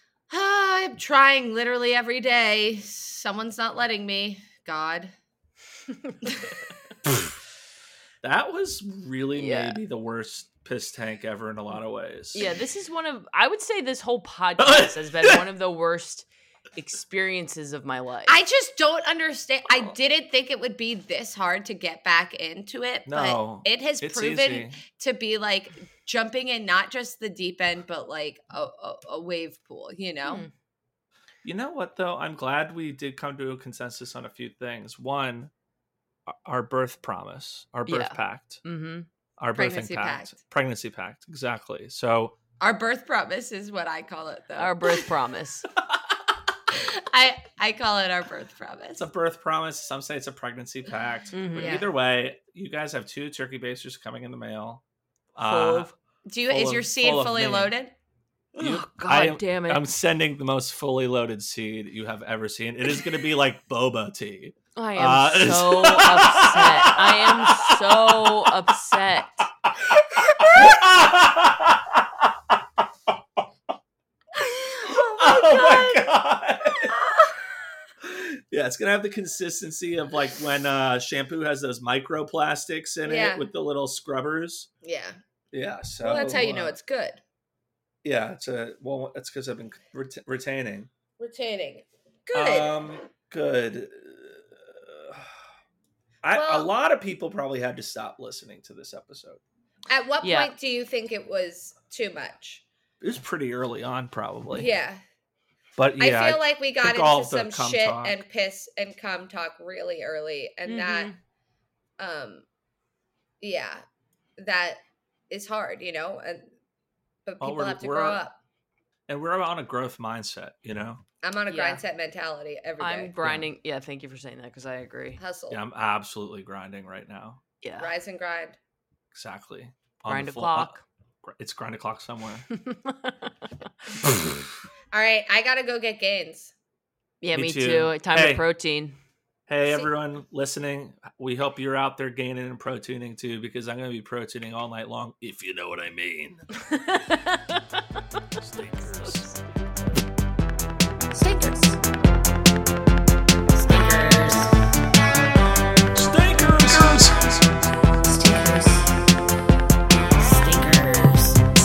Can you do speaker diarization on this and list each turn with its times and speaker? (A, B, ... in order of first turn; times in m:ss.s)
0:00.3-0:05.1 A
0:06.0-0:06.5 B
0:08.2-0:12.5 C
0:09.3-0:09.8 B
0:12.3-0:18.4 B
0:14.6-0:15.4 C
0:18.3-0:30.5 A
0:23.1-0:24.8 C
0:30.2-0:30.5 B
0:31.4-0:35.5 C
0:36.3-0:38.6 C
0:37.9-0:39.1 B
0:39.4-0:42.4 C
0:39.5-0:40.4 A
0:42.6-0:45.0 A
0:44.6-0:45.7 B
0:46.7-0:49.0 A
0:49.0-0:54.8 C
0:51.3-0:51.8 B
0:51.6-0:51.9 A
0:55.4-0:55.9 C
0:55.4-0:56.0 B
0:56.3-0:57.9 A
0:56.5-0:57.7 C
0:58.6-0:59.8 B
0:58.6-1:08.5 C
1:04.8-1:09.5 B
1:10.3-1:10.7 A
1:10.5-1:12.3 C
1:14.4-1:16.1 A
1:14.9-1:17.0 C
1:16.8-1:17.4 A
1:18.0-1:24.7 C
1:23.0-1:23.5 A
1:24.8-1:25.2 A
1:25.5-1:26.8 C
1:26.0-1:27.2 A
1:28.0-1:30.9 C
1:31.2-1:32.8 A
1:32.3-1:35.3 C
1:36.2-1:39.4 C
1:36.3-1:36.7 A
1:39.9-1:42.6 A
1:40.2-1:40.5 B
1:43.0-1:44.7 C
1:44.5-1:45.0 A
1:45.8-1:48.2 C
1:46.0-1:51.1 A
1:50.7-1:51.2 B
1:52.0-1:52.4 A
1:53.4-1:53.8 A
1:54.4-1:56.5 A
1:57.3-1:58.4 A
1:57.4-1:58.2 C
1:59.1-2:01.0 C
2:01.2-2:03.1 A
2:01.5-2:01.8 B
2:02.8-2:05.2 B
2:05.2-2:05.6 A
2:05.5-2:07.4 C
2:07.6-2:07.9 B
2:07.8-2:08.6 A
2:09.1-2:12.5 C
2:10.1-2:10.8 B
2:12.5-2:13.5 B
2:14.9-2:16.5 A
2:17.2-2:19.0 B
2:17.3-2:18.4 C
2:19.5-2:26.5 C
2:26.5-2:27.8 B
2:28.4-2:29.3 C
2:29.0-2:29.4 B
2:31.2-2:31.8 A
2:33.6-2:34.5 B
2:35.9-2:38.0 C
2:38.1-2:38.7 A
2:38.2-2:38.8 B
2:40.2-2:41.4 B